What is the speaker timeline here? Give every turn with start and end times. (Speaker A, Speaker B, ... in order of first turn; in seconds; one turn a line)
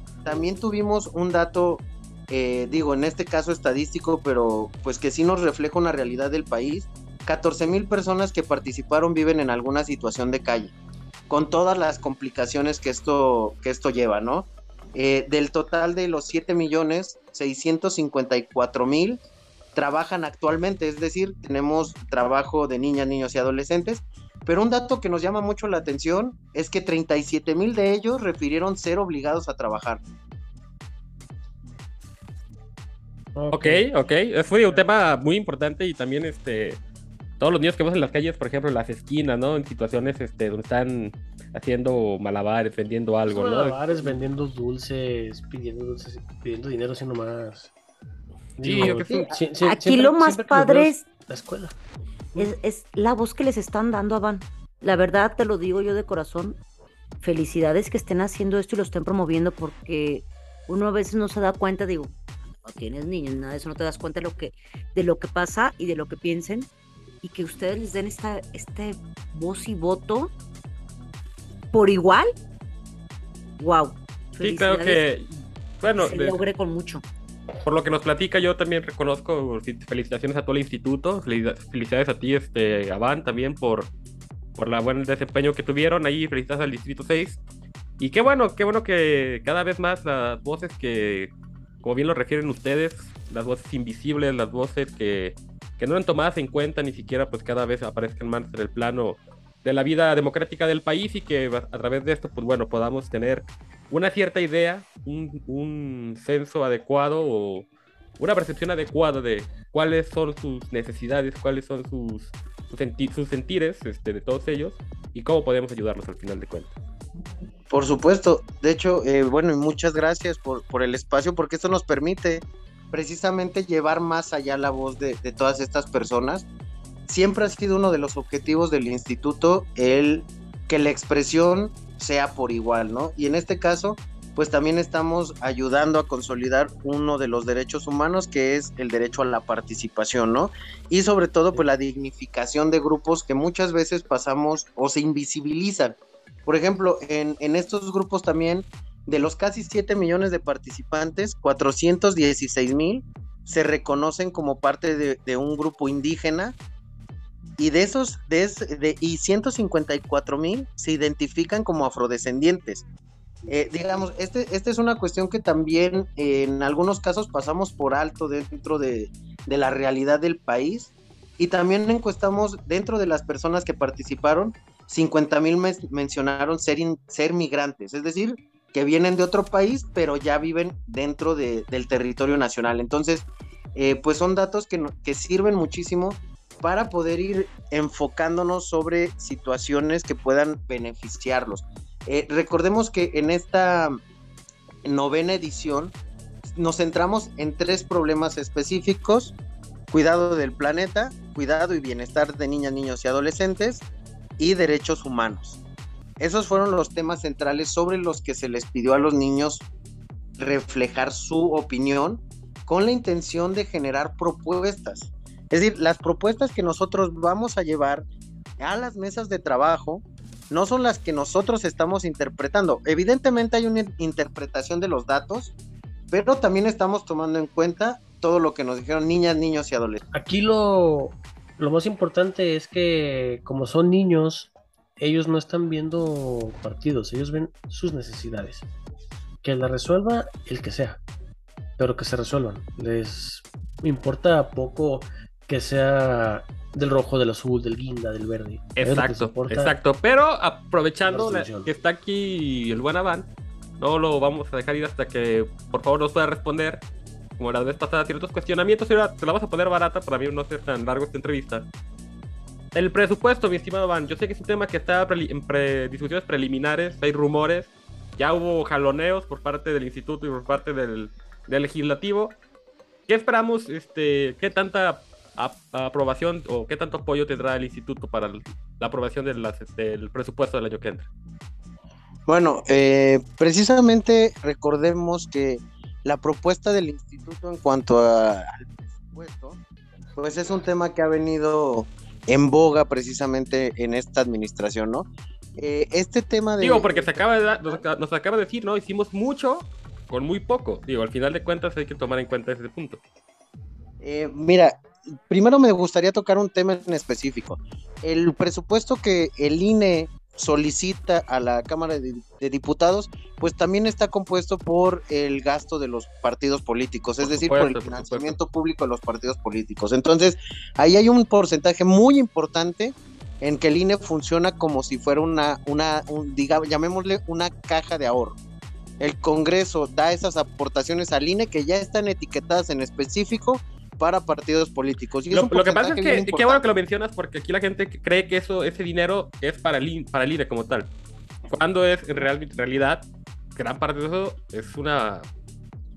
Speaker A: 0.2-10.7
Speaker A: 11.3-19.2
Speaker A: 19.7-30.0
Speaker B: 33.4-33.9
Speaker C: 33.5-36.8
Speaker C: 37.4-44.2
Speaker B: 43.3-47.7
Speaker B: 48.6-51.7
Speaker C: 48.6-49.3
Speaker D: 49.1-51.0
Speaker D: 52.4-56.6
Speaker D: 57.2-62.1
Speaker D: 62.6-66.7
Speaker D: 67.2-70.3
Speaker D: 71.7-72.3
Speaker D: 73.6-75.0
Speaker C: 74.4-75.3
Speaker C: 75.8-76.4
Speaker D: 76.0-77.0
Speaker C: 77.6-83.9
Speaker C: 84.5-87.4
Speaker C: 88.0-91.3
Speaker C: 91.8-107.7
Speaker C: 108.2-116.7
Speaker A: 117.7-126.4
Speaker A: 127.1-156.6
Speaker A: 157.6-162.8
Speaker A: 163.5-194.0
Speaker A: 194.8-195.9
Speaker A: 196.4-199.3
Speaker A: 199.9-203.8
Speaker A: 204.4-205.6
Speaker A: 206.2-209.7
Speaker A: 210.4-218.1
Speaker A: 218.6-225.5
Speaker A: 226.1-230.0
Speaker B: 230.1-238.7
Speaker B: 239.4-241.0
Speaker B: 241.8-249.8
Speaker C: 248.8-256.8
Speaker B: 251.0-251.7
Speaker C: 257.4-261.7
Speaker C: 262.7-272.4
Speaker C: 273.1-281.1
Speaker A: 282.3-289.6
Speaker A: 290.2-297.2
Speaker C: 296.6-303.0
Speaker A: 304.0-328.4
Speaker C: 317.2-318.3
Speaker A: 329.0-336.6
Speaker C: 335.3-340.9
Speaker C: 341.5-345.2